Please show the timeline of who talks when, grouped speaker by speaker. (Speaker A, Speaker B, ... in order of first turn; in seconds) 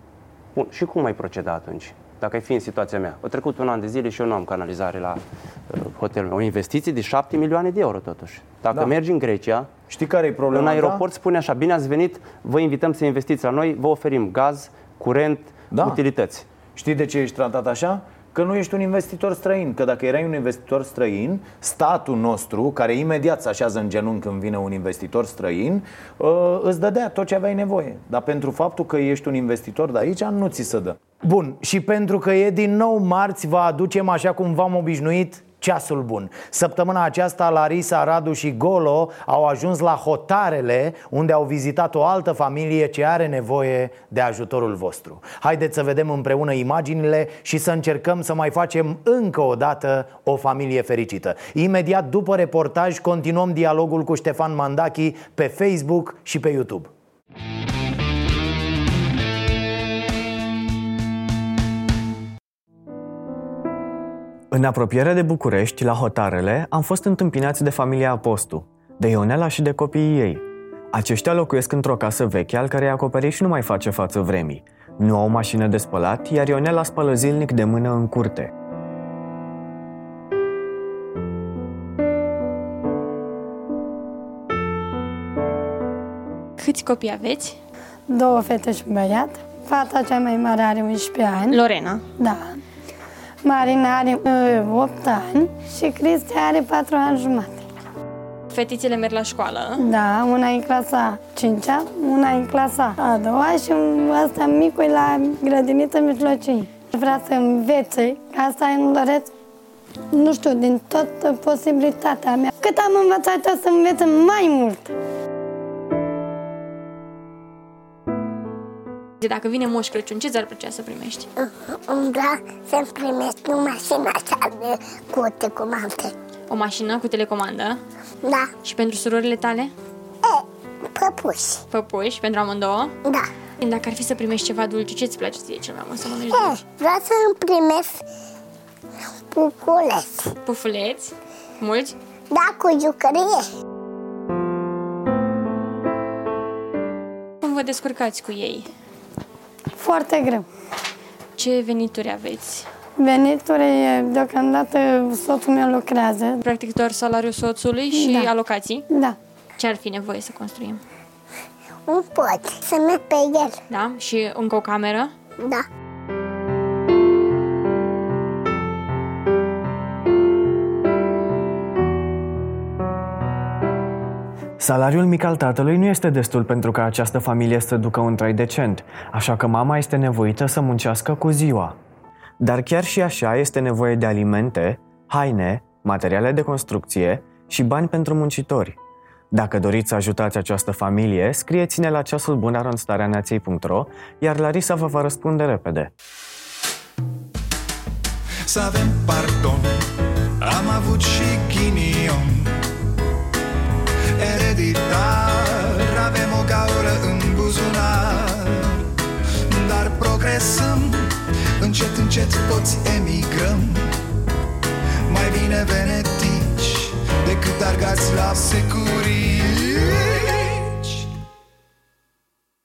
Speaker A: 0.6-9.7, 10.5-16.5
Speaker B: 9.9-11.0, 15.7-16.0, 16.8-56.9
Speaker C: 64.5-70.4, 70.9-78.5, 174.6-181.7, 182.4-188.8, 189.3-195.9
Speaker D: 86.6-87.6, 98.5-99.8, 119.2-121.3, 126.5-127.8, 128.6-129.7, 131.7-132.9, 133.6-136.6, 140.4-141.9, 147.4-148.7, 151.4-152.7, 156.4-158.8, 159.6-160.8, 163.7-165.1
Speaker E: 88.1-91.6, 92.1-92.6, 93.4-97.6, 99.8-109.3, 110.1-114.9, 149.8-150.5, 153.0-156.4, 157.9-158.3, 158.9-159.2
Speaker F: 121.4-126.1, 128.2-128.5, 130.3-131.6, 136.3-138.0, 139.3-140.3, 142.3-143.4, 161.9-163.6
Speaker G: 198.5-199.8, 200.4-202.6, 204.2-208.8, 209.5-213.9, 215.1-221.1